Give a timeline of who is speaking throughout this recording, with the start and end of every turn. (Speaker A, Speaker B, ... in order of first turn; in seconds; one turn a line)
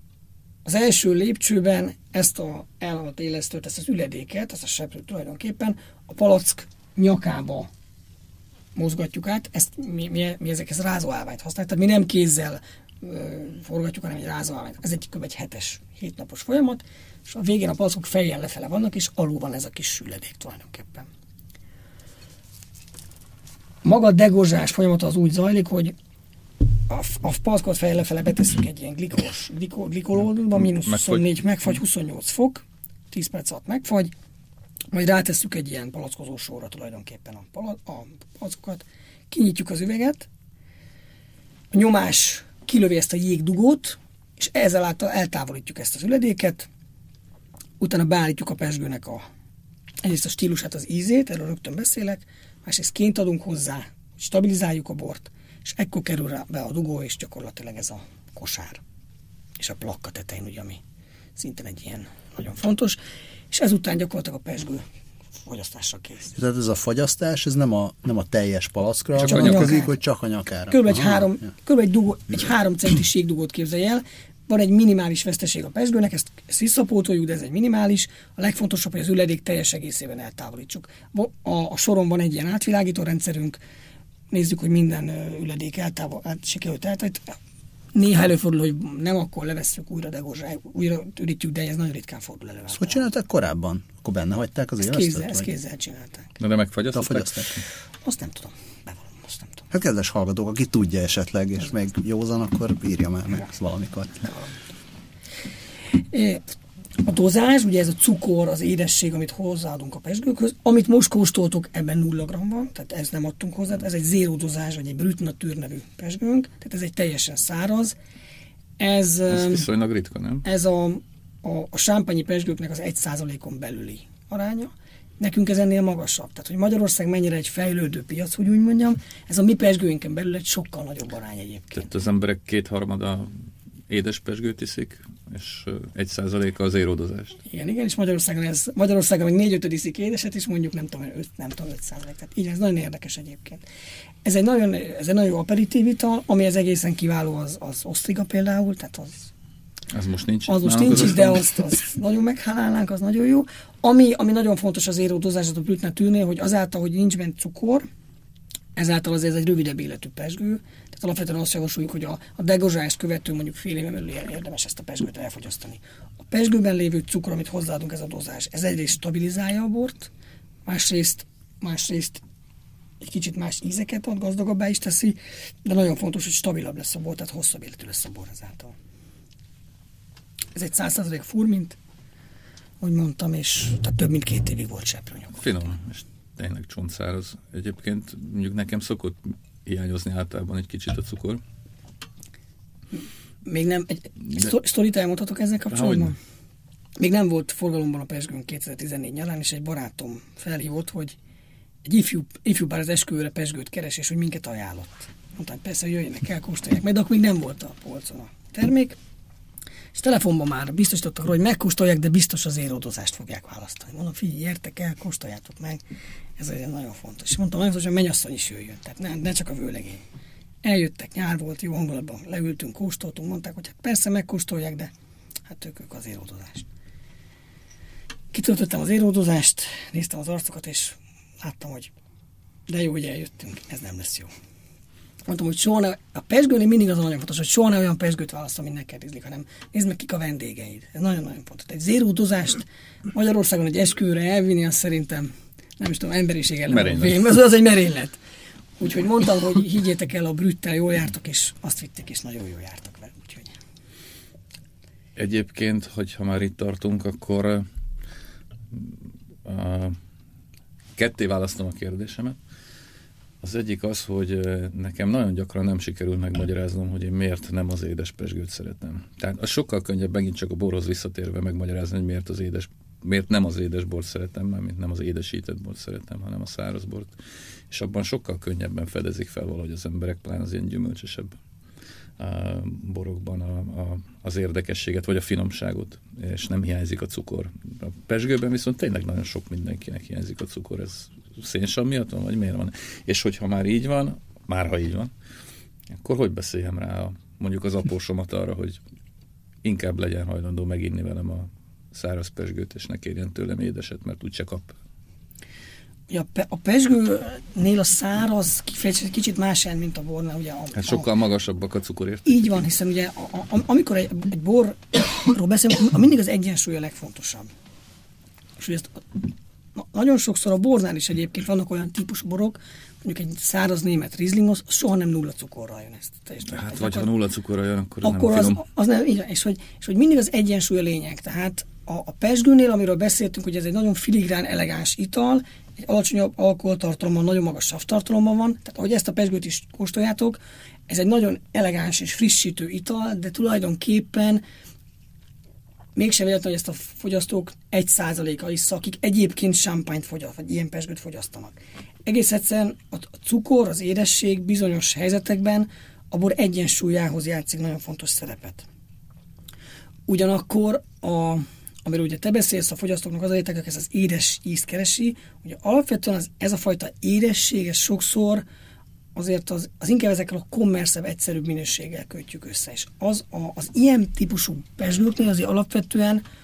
Speaker A: 0.6-7.7
Speaker A: 8.8-21.1
Speaker A: 23.8-25.9
Speaker A: 26.9-34.1
Speaker B: 30.6-31.4
Speaker A: 34.9-40.3
Speaker A: 41.7-46.7
Speaker A: 47.8-49.2
Speaker A: 50.0-58.8
Speaker A: 59.6-60.8
Speaker A: 61.4-63.0
Speaker A: 63.5-64.8
Speaker A: 65.4-66.4
Speaker C: 66.3-71.3
Speaker B: 69.2-69.8
Speaker A: 69.2-69.9
Speaker A: 70.7-83.6
Speaker A: 84.3-87.4
Speaker A: 88.0-93.1
Speaker C: 92.7-95.5
Speaker A: 94.8-96.3
Speaker B: 96.4-97.6
Speaker C: 96.9-97.5
Speaker A: 98.0-99.7
Speaker C: 99.7-104.3
Speaker A: 106.1-106.4
Speaker A: 107.0-118.0
Speaker A: 118.8-119.6
Speaker B: 119.3-120.5
Speaker A: 120.4-131.9
Speaker B: 131.8-133.3
Speaker B: 133.9-137.4
Speaker A: 137.4-143.6
Speaker A: 144.2-149.3
Speaker B: 149.9-151.4
Speaker A: 150.5-157.9
Speaker A: 158.8-170.1
Speaker A: 170.6-172.2
Speaker A: 173.0-178.8
Speaker A: 180.6-181.8
Speaker A: 182.8-185.7
Speaker B: 185.3-191.4
Speaker A: 193.4-196.2
Speaker B: 195.7-196.1
Speaker A: 197.0-201.2
Speaker A: 201.8-209.0
Speaker A: 209.9-215.8
Speaker A: 216.4-220.0
Speaker A: 220.6-224.9
Speaker A: 225.5-226.7
Speaker A: 228.3-231.9
Speaker A: 232.7-234.3
Speaker A: 235.3-248.2
Speaker B: 246.7-247.2
Speaker A: 248.8-253.5
Speaker B: 255.2-257.7
Speaker B: 258.7-260.0
Speaker B: 261.0-262.4
Speaker B: 263.4-277.1
Speaker B: 277.7-281.3
Speaker B: 282.2-295.1
Speaker B: 295.9-298.8
Speaker B: 299.6-304.8
Speaker A: 306.1-311.1
Speaker B: 310.8-312.6
Speaker A: 312.3-317.5
Speaker A: 318.6-327.1
Speaker B: 326.5-328.6
Speaker A: 328.0-344.4
Speaker A: 345.9-358.7
Speaker A: 360.1-368.4
Speaker A: 369.1-376.2